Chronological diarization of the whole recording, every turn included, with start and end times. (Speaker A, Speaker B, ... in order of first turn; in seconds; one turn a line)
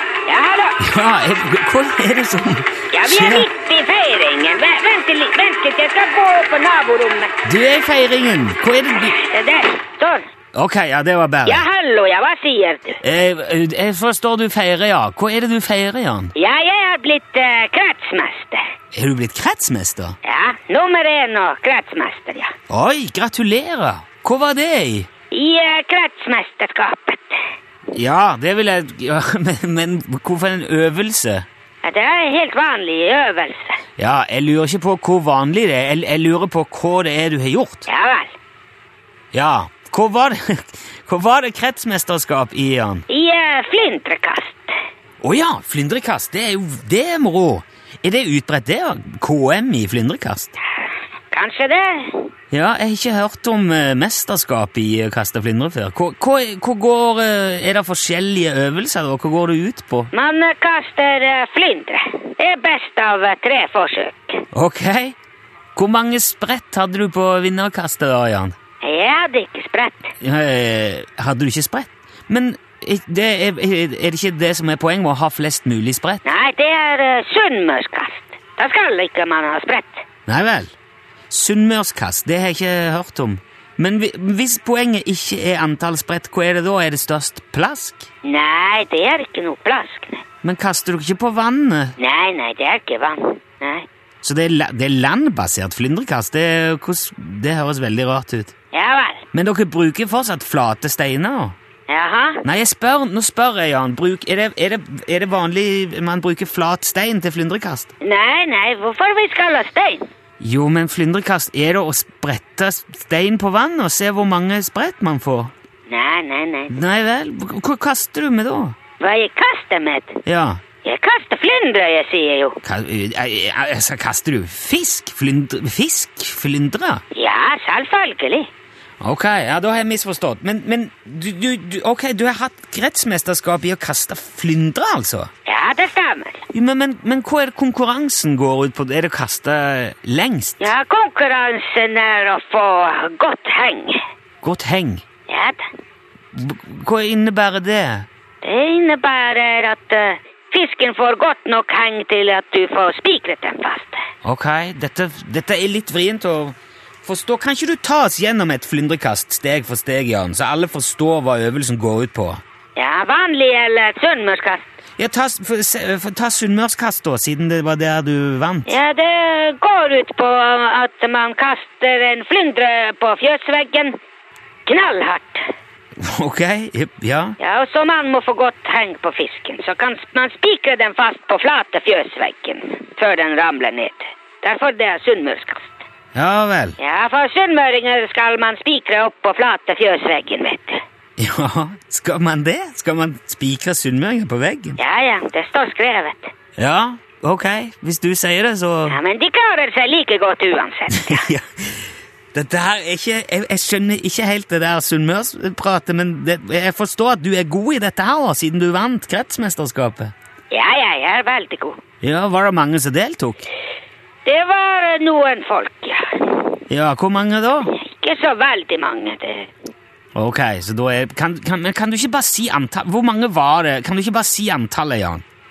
Speaker A: 0.2-0.8
Speaker B: 0.8-3.5
Speaker A: 2.9-7.4
Speaker B: 7.4-9.1
Speaker A: 8.9-10.3
Speaker B: 10.5-11.6
Speaker A: 11.4-13.0
Speaker B: 13.0-16.3
Speaker A: 16.3-18.6
Speaker B: 18.9-20.1
Speaker A: 20.2-22.5
Speaker B: 22.7-25.1
Speaker A: 25.3-27.4
Speaker B: 27.9-31.4
Speaker A: 31.8-33.8
Speaker B: 34.0-37.9
Speaker A: 37.9-38.3
Speaker B: 39.3-43.0
Speaker A: 43.1-44.7
Speaker B: 45.2-50.5
Speaker A: 50.8-52.3
Speaker B: 52.5-60.1
Speaker A: 60.1-64.4
Speaker B: 64.5-65.2
Speaker B: 65.8-68.5
Speaker A: 68.8-70.1
Speaker B: 70.2-76.2
Speaker A: 76.2-80.0
Speaker B: 80.3-80.7
Speaker B: 81.3-88.1
Speaker A: 88.2-90.2
Speaker B: 90.4-91.9
Speaker A: 92.0-93.9
Speaker B: 94.2-98.5
Speaker A: 98.7-99.2
Speaker B: 99.3-101.5
Speaker A: 101.9-102.4
Speaker B: 102.4-107.9
Speaker A: 108.0-110.0
Speaker B: 110.4-115.5
Speaker A: 115.9-116.7
Speaker B: 116.7-118.8
Speaker A: 119.0-120.2
Speaker B: 120.2-120.6
Speaker A: 120.8-122.6
Speaker B: 122.6-127.0
Speaker A: 127.1-128.5
Speaker B: 129.0-135.3
Speaker A: 135.4-136.4
Speaker B: 136.5-140.7
Speaker A: 140.6-144.0
Speaker B: 144.4-145.0
Speaker A: 145.3-145.7
Speaker B: 146.3-148.1
Speaker A: 148.4-154.0
Speaker B: 154.2-162.4
Speaker A: 162.8-164.6
Speaker B: 165.0-168.7
Speaker A: 168.7-173.9
Speaker A: 174.7-175.5
Speaker B: 176.0-177.4
Speaker A: 177.4-185.8
Speaker B: 186.1-186.8
Speaker A: 186.8-190.8
Speaker B: 191.2-194.8
Speaker A: 194.8-196.3
Speaker B: 196.6-199.0
Speaker A: 198.9-201.3
Speaker B: 200.9-210.1
Speaker A: 210.5-211.8
Speaker B: 212.0-213.5
Speaker A: 214.2-216.6
Speaker B: 216.7-217.7
Speaker A: 217.7-219.5
Speaker B: 220.1-225.2